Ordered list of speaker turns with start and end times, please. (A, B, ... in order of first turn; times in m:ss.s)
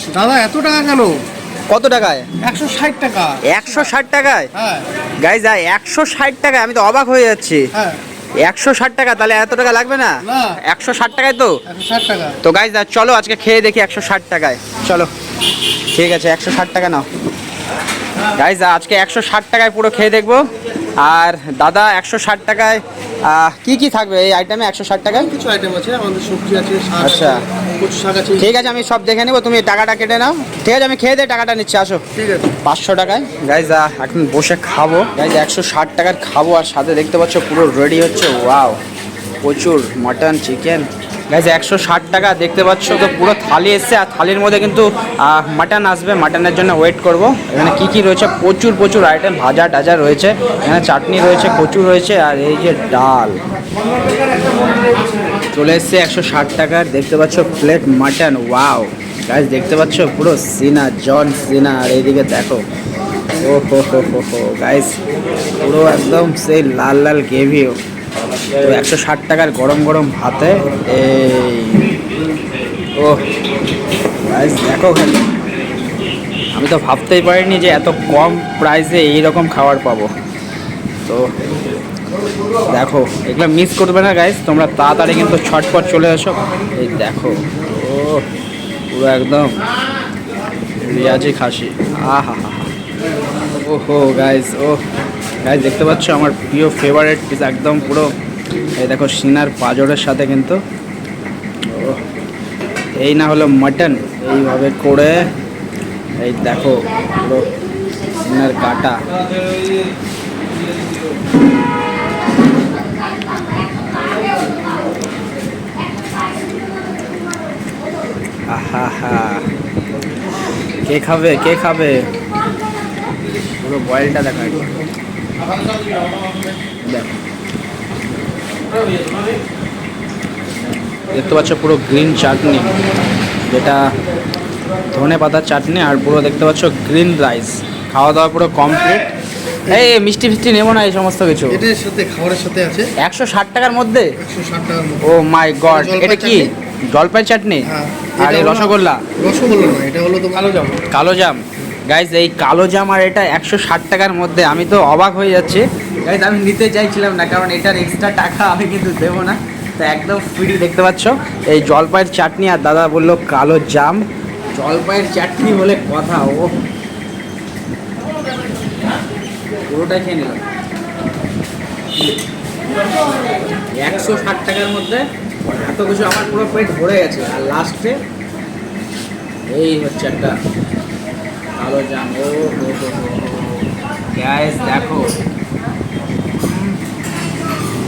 0:00.1-0:01.2 A
0:01.7-0:02.3 B
0:02.4-0:03.9 A
0:03.4-0:04.5 B
0:04.5-0:04.9 A
0:05.2-0:07.7 B
0:07.7-0:08.0 A
0:08.4-0:11.6 B
0:10.2-0:10.6 A
0:11.7-0:12.4 A
0:12.4-0:15.1 B
0:15.9-0:17.1 B
0:18.3-0:20.4 B
0:21.0-0:25.3 B
0:25.2-0:28.5 A
0:27.0-0:27.4 B
0:28.4-0:32.0 B
0:32.2-0:32.5 A
0:32.6-0:38.8 B
0:39.4-0:53.4 B
0:55.5-1:02.6 B
1:03.4-1:05.0 B
1:05.6-1:07.8 B
1:08.6-1:11.9 B
1:14.3-1:15.2 B
1:16.5-1:20.1 B
1:21.0-1:21.3 B
1:22.7-1:28.2 B
1:28.9-1:29.6 B
1:30.8-1:32.7 B
1:33.7-1:34.8 B
1:35.4-1:38.1 B
1:38.8-1:40.6 B
1:41.7-1:42.0 B
1:43.0-1:45.3 B
1:46.2-1:47.5 B
1:48.2-1:49.0 B
1:58.5-1:59.5 B
2:00.9-2:02.1 B
2:03.6-2:04.8 B
2:05.6-2:06.5 A
2:06.8-2:07.1 B
2:11.1-2:12.8 B
2:13.5-2:13.8 B
2:14.9-2:19.0 B
2:19.7-2:21.6 B
2:21.5-2:22.9 A
2:23.0-2:24.1 B
2:24.2-2:25.1 A
2:25.0-2:27.7 B
2:25.7-2:26.5 A
2:27.7-2:30.9 A
2:28.2-2:29.0 B
2:30.9-2:44.0 B
2:44.6-2:46.5 B
2:49.7-2:50.4 B
2:53.7-2:58.0 B
2:59.5-3:00.4 B
3:01.6-3:05.1 B
3:06.5-3:06.8 B